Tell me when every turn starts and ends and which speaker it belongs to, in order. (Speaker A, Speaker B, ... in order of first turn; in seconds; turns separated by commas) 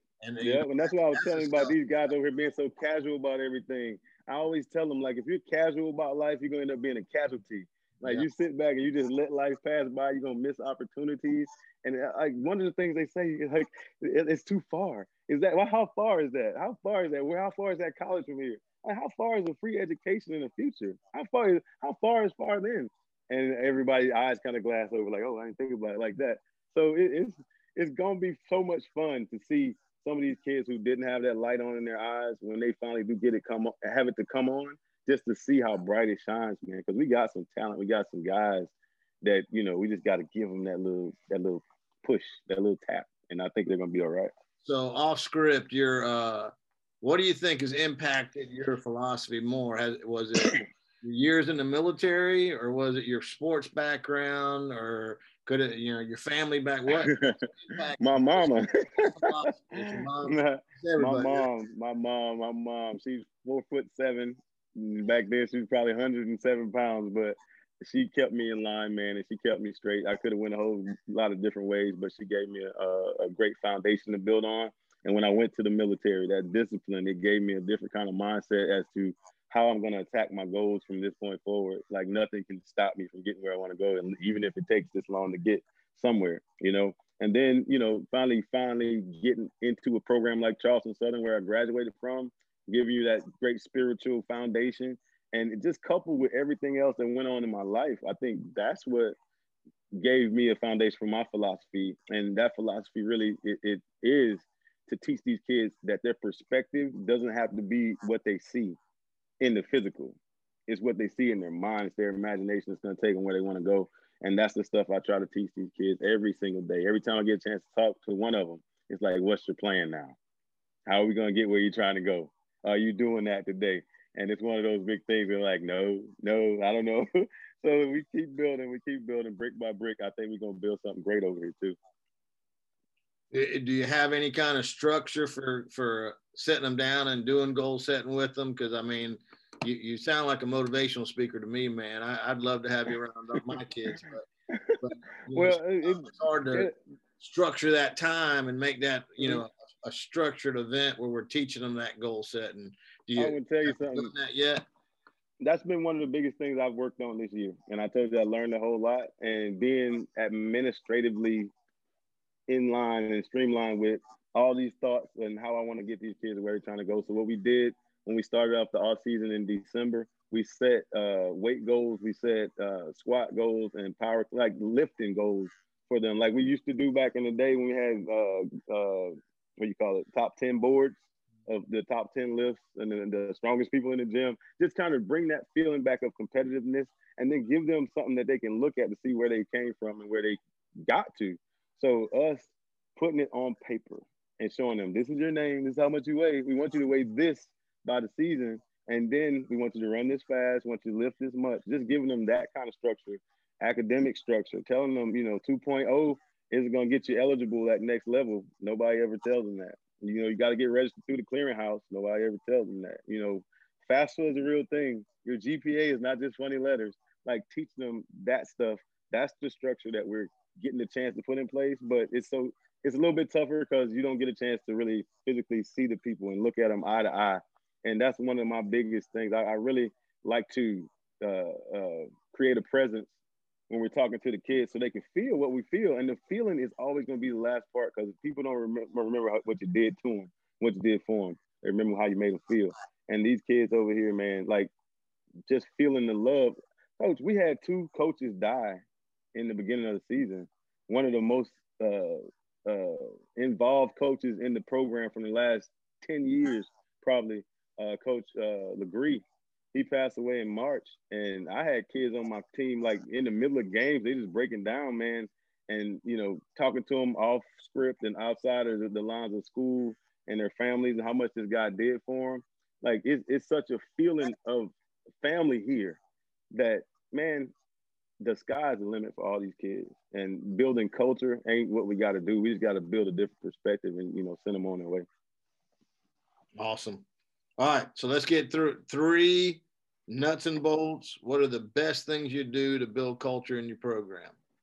Speaker A: 0.2-1.7, Speaker B: 0.4-44.3, Speaker A: 8.0-8.3, Speaker A: 44.6-61.5, Speaker B: 57.0-57.4, Speaker B: 58.0-59.3, Speaker B: 59.8-99.2, Speaker B: 99.9-108.8, Speaker B: 109.4-120.2, Speaker B: 120.9-131.8, Speaker A: 133.3-144.3, Speaker B: 144.5-144.8, Speaker A: 144.8-146.7, Speaker B: 145.3-146.8, Speaker A: 147.2-154.6, Speaker B: 153.2-154.1, Speaker B: 155.4-161.5, Speaker B: 162.5-233.1, Speaker B: 233.7-244.7, Speaker B: 245.5-248.8, Speaker B: 249.3-276.0, Speaker B: 276.5-277.5, Speaker B: 278.2-285.1, Speaker A: 286.6-287.1, Speaker A: 287.6-294.4